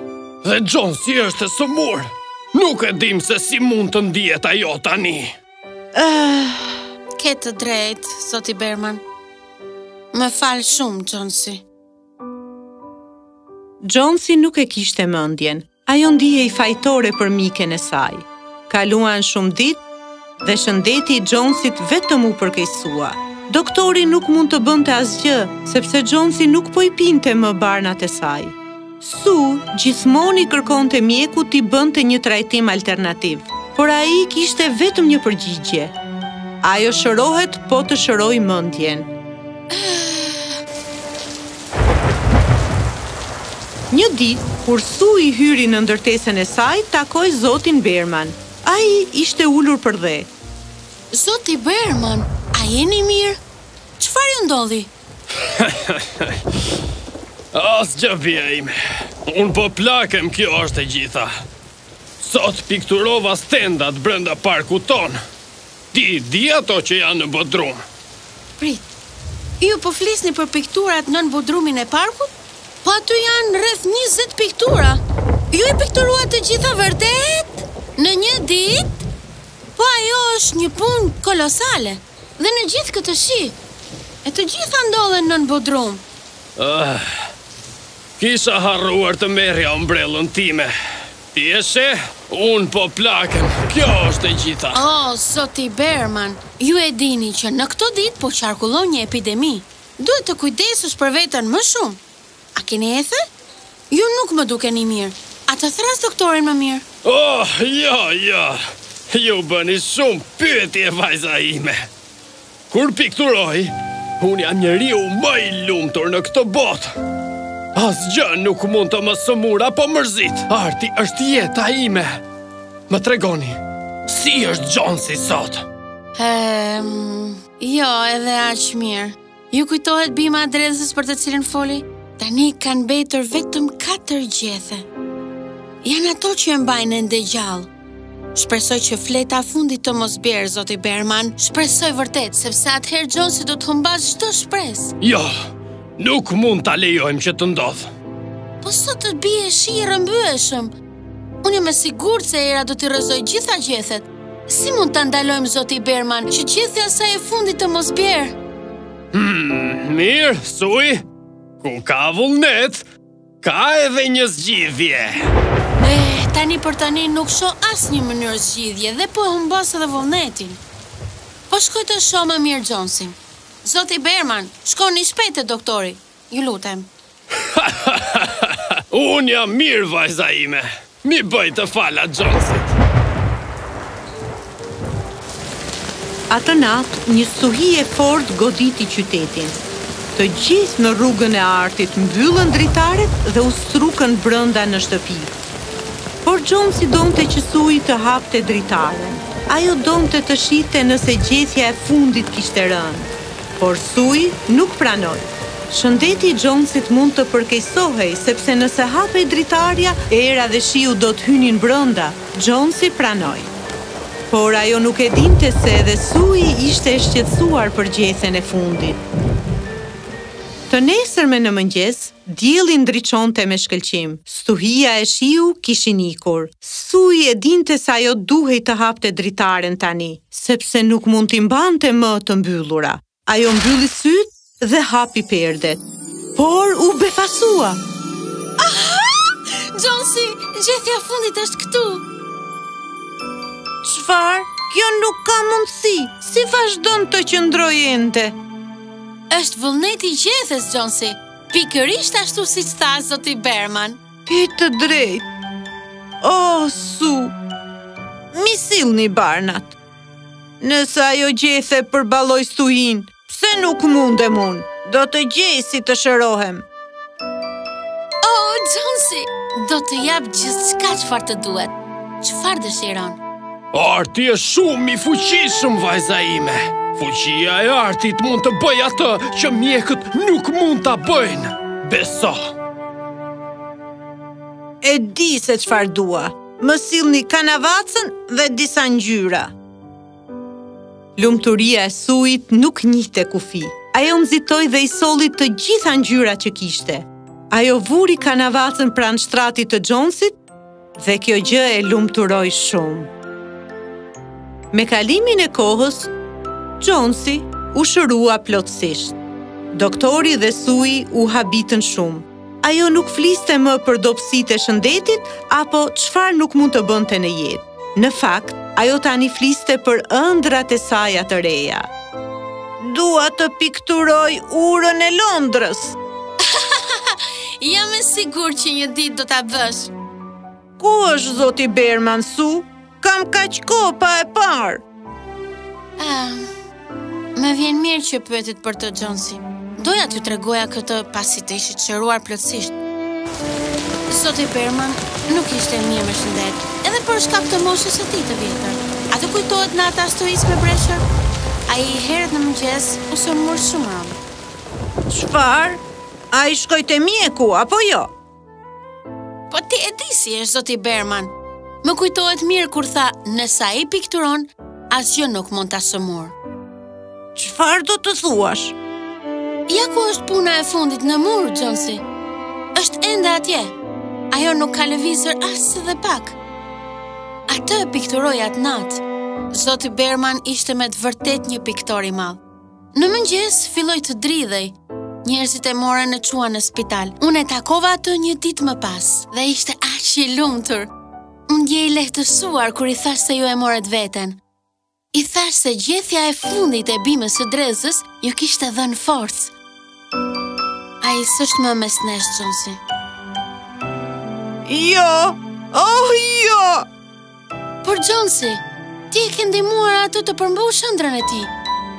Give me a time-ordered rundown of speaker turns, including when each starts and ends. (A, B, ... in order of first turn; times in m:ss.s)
0:00.4-0:05.3 A
0:05.9-0:06.8 B
0:07.2-0:09.0 C
0:10.1-0:11.6 C
0:13.8-0:19.8 B
0:20.4-0:36.0 B
0:36.6-0:39.1 B
0:39.7-0:40.6 C
0:43.9-0:50.3 B
0:51.1-0:53.4 C
0:54.0-0:54.9 C
0:55.4-0:56.4 A
0:57.5-0:58.7 A
0:59.3-1:01.3 A
1:02.2-1:05.2 A
1:05.9-1:07.8 A
1:08.6-1:08.9 C
1:09.6-1:19.1 C
1:19.8-1:23.6 C
1:24.2-1:26.0 C
1:26.6-1:27.1 A
1:28.2-1:30.7 A
1:31.3-1:34.8 A
1:34.7-1:42.0 C
1:42.6-1:43.2 C
1:43.9-1:46.8 C
1:47.0-1:51.9 A
1:52.7-1:56.9 A
1:57.8-2:02.2 A
2:02.9-2:05.7 A
2:06.2-2:14.9 C
2:15.8-2:17.7 C
2:18.3-2:25.0 C
2:25.0-2:25.3 A
2:26.0-2:27.9 A
2:28.6-2:30.7 C
2:31.4-2:38.4 C
2:39.1-2:41.0 A
2:41.6-2:42.9 A
2:43.4-2:45.3 A
2:45.8-2:50.6 C
2:51.5-2:56.9 C
2:57.6-3:02.8 A
3:06.3-3:09.6 B
3:10.2-3:15.4 B
3:16.2-3:33.5 B
3:34.3-3:39.0 B
3:40.7-3:55.8 B
3:56.4-3:57.8 B
3:58.6-4:02.0 C
4:03.8-4:08.4 B
4:09.3-4:14.0 C
4:14.3-4:15.3 B
4:16.2-4:17.4 B
4:18.3-4:19.8 B
4:20.6-4:26.7 B
4:28.2-4:33.2 C
4:33.7-4:42.5 A
4:44.8-4:49.5 B
4:51.2-5:00.4 B
5:01.0-5:03.1 B
5:04.7-5:06.1 B
5:06.8-5:09.2 B
5:09.7-5:21.9 B
5:22.8-5:26.0 B
5:26.4-5:29.9 C
5:30.8-5:34.8 B
5:36.0-5:36.5 C
5:37.4-5:42.8 C
5:44.1-5:51.1 C
5:51.7-5:54.2 C
5:55.1-5:58.1 B
5:59.5-6:06.3 C
6:07.4-6:08.8 B
6:09.7-6:12.0 C
6:12.8-6:13.8 C
6:14.3-6:16.4 C
6:17.5-6:22.4 C
6:22.9-6:30.9 C
6:31.5-6:34.4 C
6:35.1-6:39.5 C
6:41.0-6:42.8 C
6:44.7-6:46.9 B
6:47.8-6:51.5 C